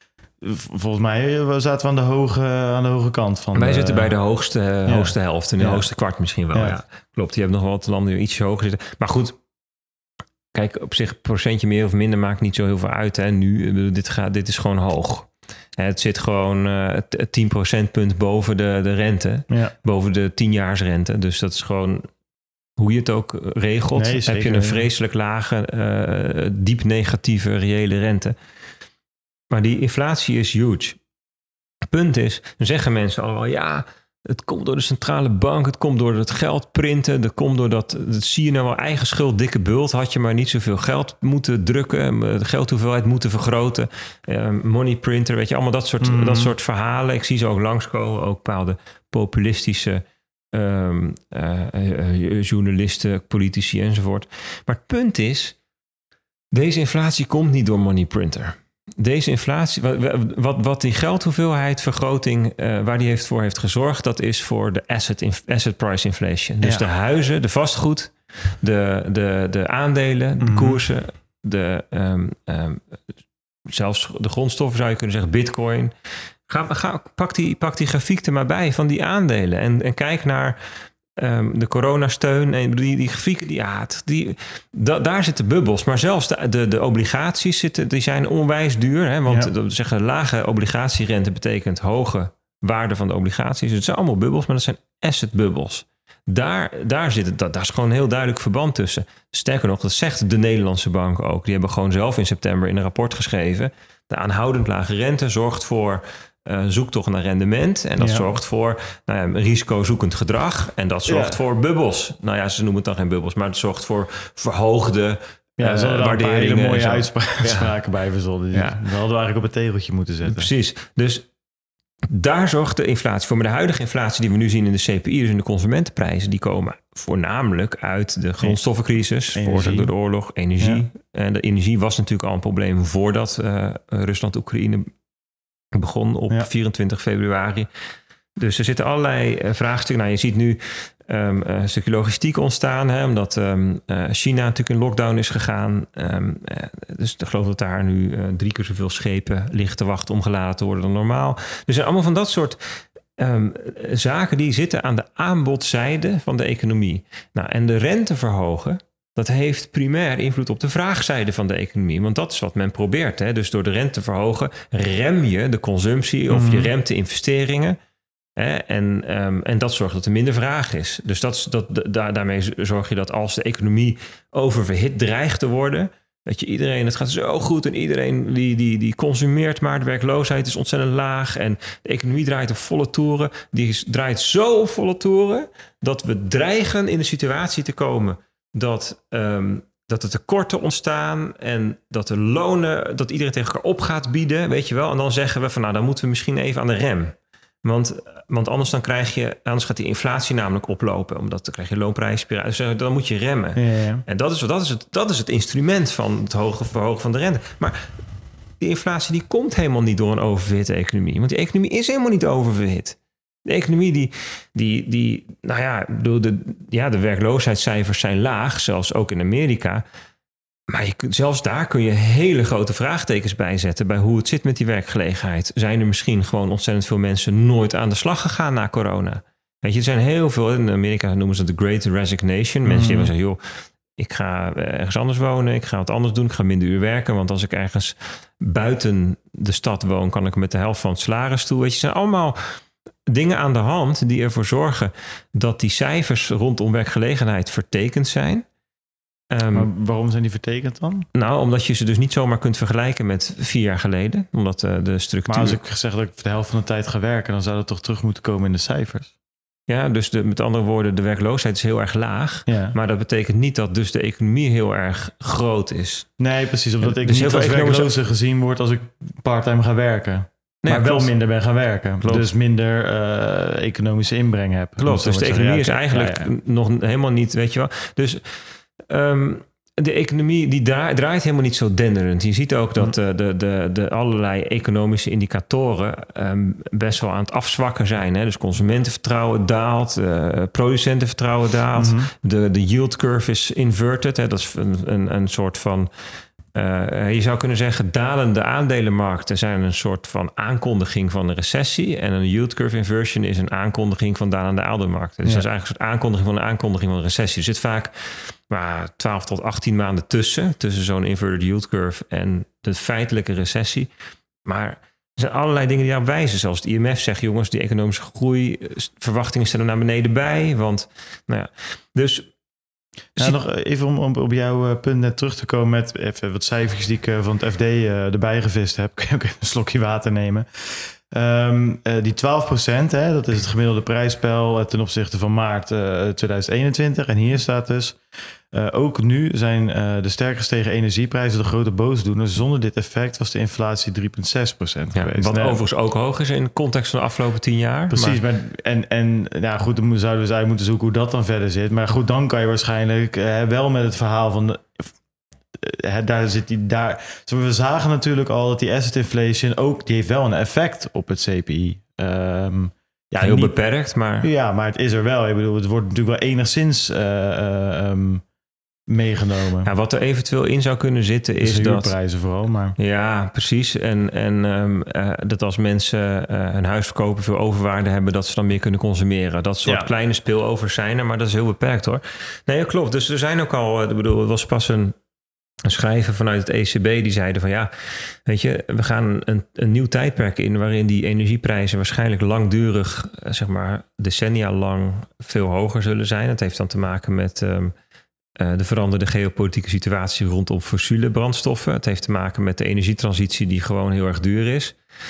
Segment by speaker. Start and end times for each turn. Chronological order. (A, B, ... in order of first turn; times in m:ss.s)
0:00.4-0:04.1 A
0:03.6-0:09.4 B
0:04.9-0:05.8 A
0:10.5-0:22.1 B
0:22.8-0:28.4 B
0:24.0-0:24.8 A
0:29.5-0:31.0 B
0:31.9-0:55.6 B
0:46.0-0:46.6 A
0:56.5-1:13.0 B
1:10.4-1:10.8 A
1:13.7-1:15.9 B
1:16.5-1:20.6 B
1:21.2-1:57.7 B
1:48.0-1:48.2 A
1:51.1-1:51.4 A
1:55.6-2:00.5 A
1:58.5-1:58.8 B
2:00.3-2:01.3 B
2:02.1-2:14.9 B
2:09.4-2:09.9 A
2:15.7-2:17.7 B
2:18.4-2:47.8 B
2:46.3-2:46.7 A
2:48.4-3:27.9 B
3:23.6-3:24.0 A
3:28.6-3:39.8 B
3:40.7-3:53.4 B
3:52.6-3:53.1 A
3:54.0-4:02.6 B
4:03.1-4:08.4 B
4:09.3-4:09.7 B
4:09.5-4:11.1 A
4:11.1-4:15.6 B
4:15.3-4:19.1 A
4:19.7-4:26.1 B
4:22.5-4:22.7 A
4:26.2-4:36.3 A
4:26.8-4:27.9 B
4:30.6-4:31.1 B
4:32.0-4:32.3 B
4:34.8-4:38.3 B
4:38.9-4:55.9 B
4:51.8-4:52.1 A
4:56.5-5:13.9 B
5:14.4-5:22.2 B
5:23.2-5:38.0 A
5:38.5-5:45.6 A
5:45.0-5:48.2 B
5:47.9-5:54.9 A
5:55.6-6:03.5 A
6:03.2-6:04.3 B
6:04.2-6:08.2 A
6:08.9-6:09.7 A
6:09.6-6:11.9 B
6:11.4-6:12.8 A
6:12.8-6:25.0 B
6:19.6-6:19.9 A
6:25.6-6:37.7 B
6:38.4-6:44.8 B